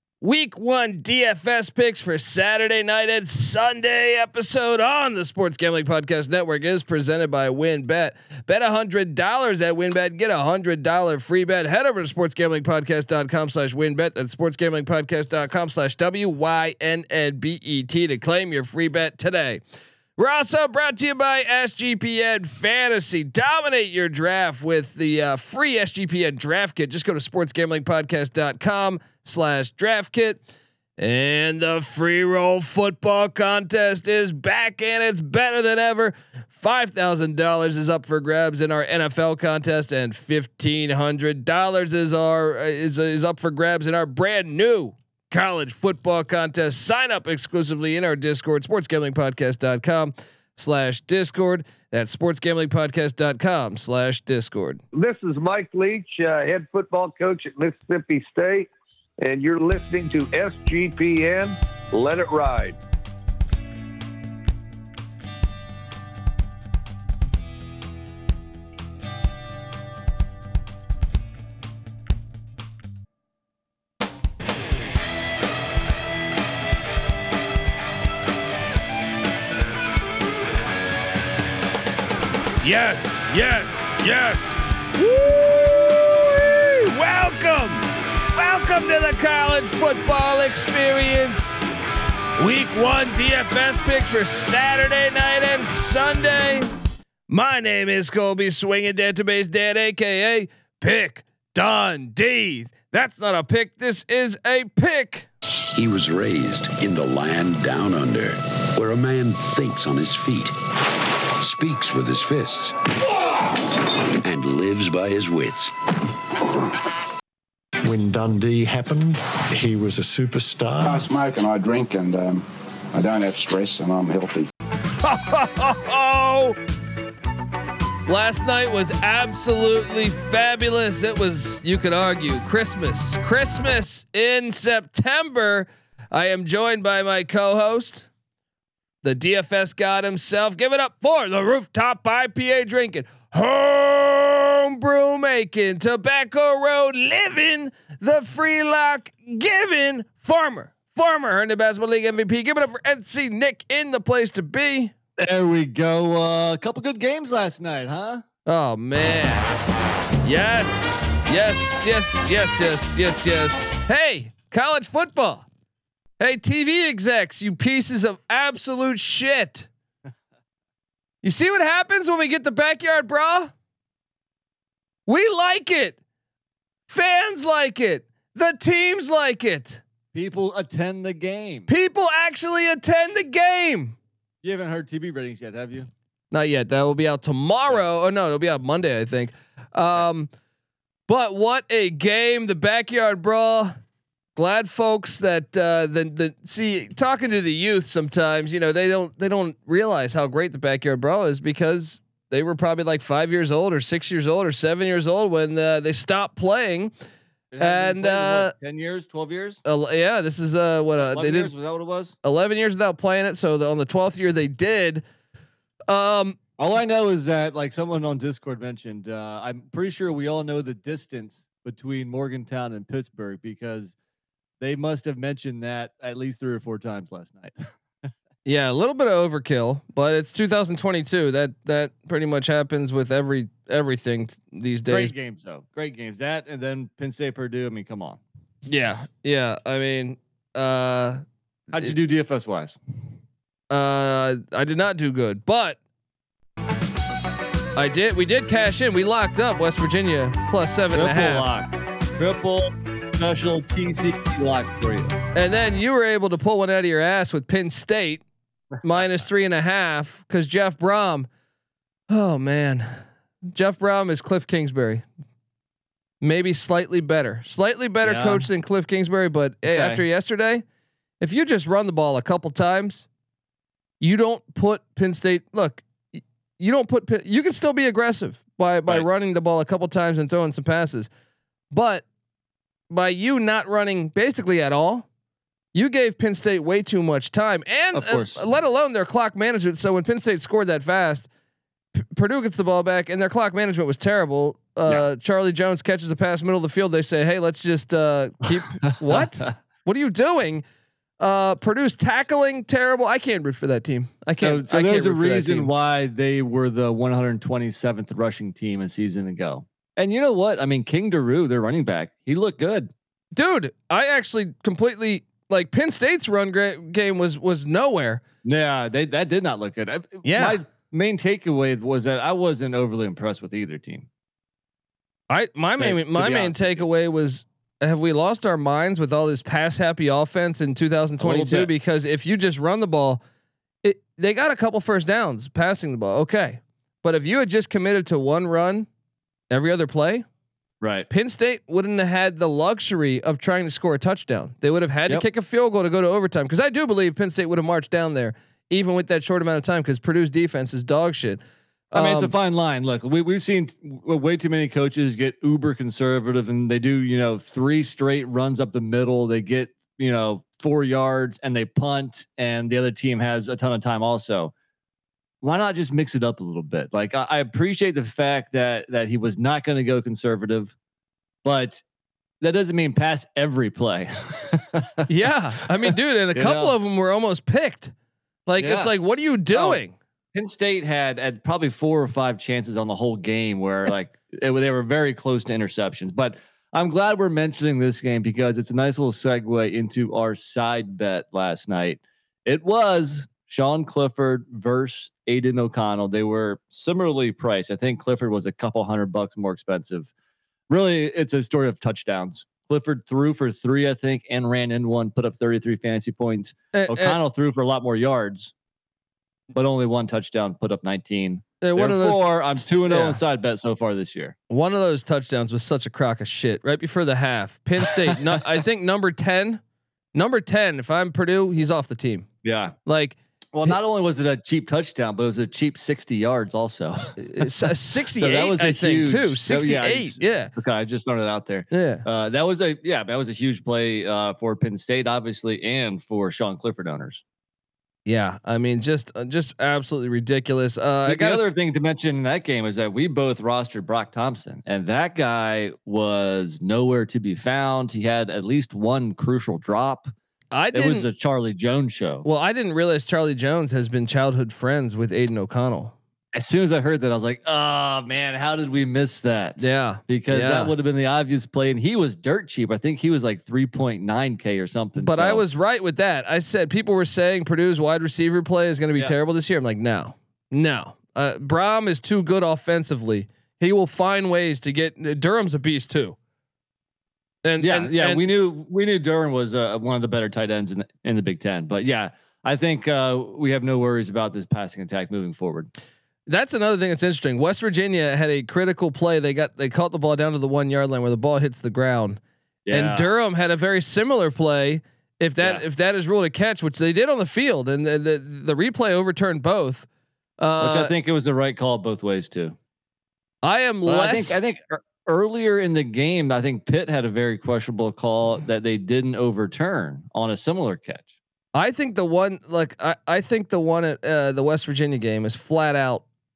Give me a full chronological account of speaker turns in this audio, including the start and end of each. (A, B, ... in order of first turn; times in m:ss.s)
0:00.2-0:19.6 A
0:20.2-0:30.4 A
0:31.0-0:54.8 A
0:54.9-1:02.8 B
1:22.6-1:31.6 A
1:32.4-1:36.7 A
1:37.3-1:45.3 A
1:45.7-1:50.6 C
1:51.4-1:52.8 C
1:54.2-1:55.7 C
1:57.8-2:01.0 D
2:00.8-2:04.5 E
2:05.0-2:06.6 A
2:08.0-2:18.1 A
2:19.0-2:34.9 A
2:35.2-2:38.2 F
2:38.4-2:39.4 A
2:40.2-2:45.4 A
2:46.2-2:49.7 A
2:51.2-2:53.5 A
2:55.1-2:56.0 A
2:56.9-2:59.8 A
3:00.1-3:01.7 F
3:01.7-3:04.0 A
3:04.4-3:05.9 F
3:06.3-3:10.3 A
3:11.1-3:13.7 A
3:14.4-3:26.9 A
3:27.5-3:29.6 F
3:27.6-3:28.5 A
3:29.6-3:31.5 A
3:31.0-3:32.1 F
3:32.2-3:35.0 A
3:35.9-3:36.4 A
3:36.6-3:43.9 F
3:44.6-3:47.6 F
3:48.4-3:55.1 A
3:54.9-3:58.2 F
3:58.7-4:02.0 A
4:01.7-4:02.8 F
4:03.7-4:05.8 A
4:07.8-4:11.5 A
4:10.9-4:15.1 F
4:15.3-4:18.2 A
4:18.8-4:21.3 A
4:22.1-4:22.9 A
4:23.4-4:25.0 A
4:26.2-4:30.6 A
4:28.0-4:28.5 F
4:29.7-4:30.0 F
4:31.2-4:33.0 A
4:34.0-4:35.8 A
4:36.6-4:41.1 A
4:41.7-4:42.0 A
4:42.9-4:45.0 A
4:45.7-4:51.3 A
4:47.9-4:48.4 F
4:52.0-5:00.6 A
4:59.1-4:59.4 F
5:01.2-5:05.7 A
5:04.4-5:12.9 F
5:13.3-5:18.2 A
5:18.4-5:24.1 F
5:20.2-5:20.6 A
5:25.3-5:33.2 A
5:25.8-5:26.8 F
5:31.2-5:31.7 F
5:33.8-5:38.9 A
5:39.5-5:40.2 A
5:40.8-5:41.1 F
5:41.1-5:52.3 A
5:51.9-6:04.5 F
6:05.4-6:10.7 F
6:11.4-6:11.8 F
6:12.4-6:15.1 F
6:15.1-6:17.9 A
6:15.8-6:16.7 F
6:18.5-6:19.9 A
6:18.6-6:19.8 F
6:20.3-6:40.1 F
6:40.7-6:48.5 F
6:46.7-6:47.2 A
6:49.5-6:54.3 F
6:51.6-6:53.2 A
6:54.5-6:59.6 A
7:00.1-7:02.3 A
7:02.4-7:02.7 F
7:02.8-7:03.7 A
7:03.5-7:17.2 F
7:07.2-7:10.5 A
7:11.7-7:12.0 A
7:18.0-7:21.5 A
7:21.1-7:30.1 F
7:30.5-7:31.1 A
7:30.7-7:32.2 F
7:32.2-7:35.9 A
7:36.3-7:45.4 F
7:39.6-7:40.7 A
7:44.9-7:56.2 A
7:57.4-7:58.3 A
7:57.6-8:05.7 F
8:06.3-8:12.2 A
8:12.6-8:13.1 F
8:12.7-8:19.9 A
8:20.4-8:20.9 A
8:20.6-8:22.6 F
8:23.4-8:24.4 A
8:23.8-8:31.1 F
8:31.5-8:36.0 A